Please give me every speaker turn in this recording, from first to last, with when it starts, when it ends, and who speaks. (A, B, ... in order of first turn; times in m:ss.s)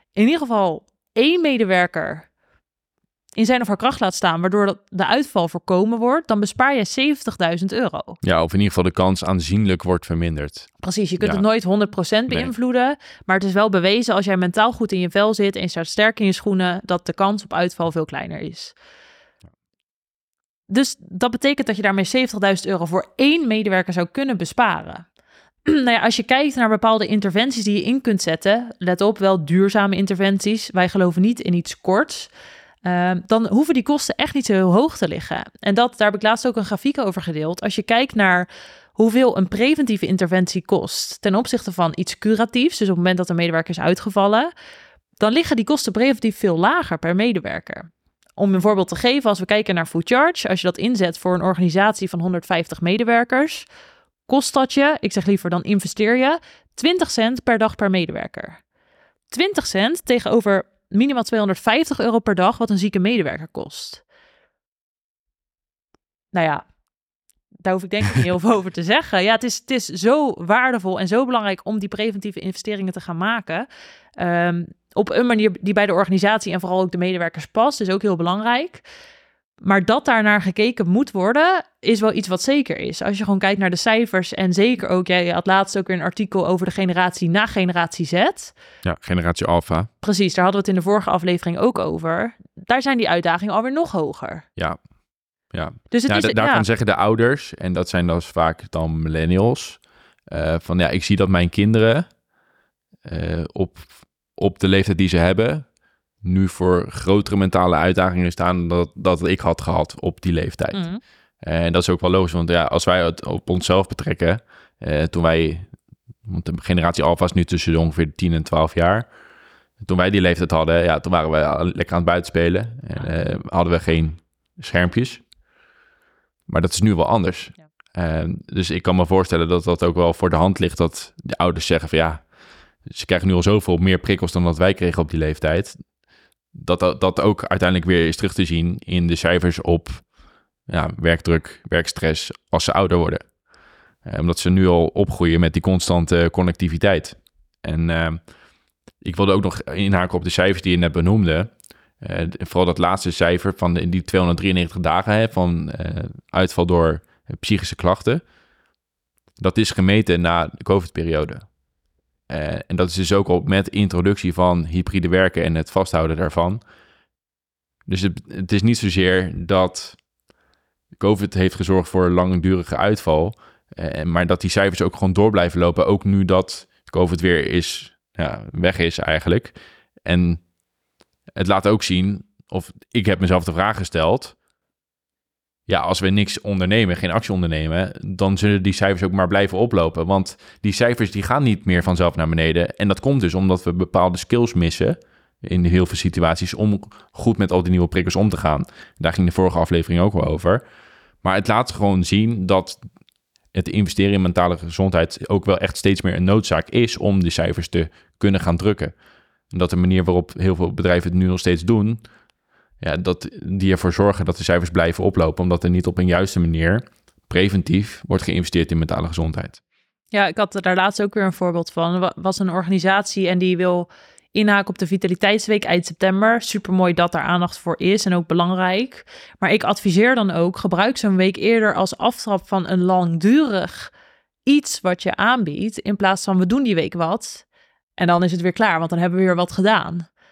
0:00.2-0:02.3 A
0:03.4-0:08.2 A
0:08.2-0:11.4 B
0:10.8-0:18.7 A
0:20.7-0:25.0 A
0:25.6-0:32.3 A
0:32.8-0:44.5 A
0:45.2-0:53.7 A
0:54.3-0:58.6 A
0:59.3-1:04.0 A
1:06.3-1:06.6 A
1:07.6-1:18.8 A
1:19.6-1:28.5 A
1:28.8-1:29.9 B
1:30.0-1:34.4 A
1:35.5-1:39.8 B
1:35.9-1:36.6 A
1:40.3-1:42.1 B
1:43.0-1:45.7 B
1:46.2-1:50.8 B
1:50.7-1:51.0 A
1:51.4-1:55.7 B
1:56.3-1:59.1 B
1:59.8-2:05.2 B
2:06.5-2:12.2 B
2:12.9-2:15.8 B
2:16.5-2:20.0 B
2:20.7-2:23.2 B
2:24.0-2:28.2 B
2:29.0-2:38.2 B
2:39.4-2:41.4 B
2:42.3-2:46.6 B
2:47.9-2:50.0 B
2:51.0-2:59.5 B
3:00.0-3:00.4 B
3:01.4-3:04.3 B
3:05.7-3:20.6 B
3:21.2-3:22.8 B
3:23.5-3:28.9 B
3:29.5-3:32.0 B
3:32.8-3:39.6 B
3:40.1-3:53.9 A
3:54.4-3:57.4 A
3:58.0-4:00.1 A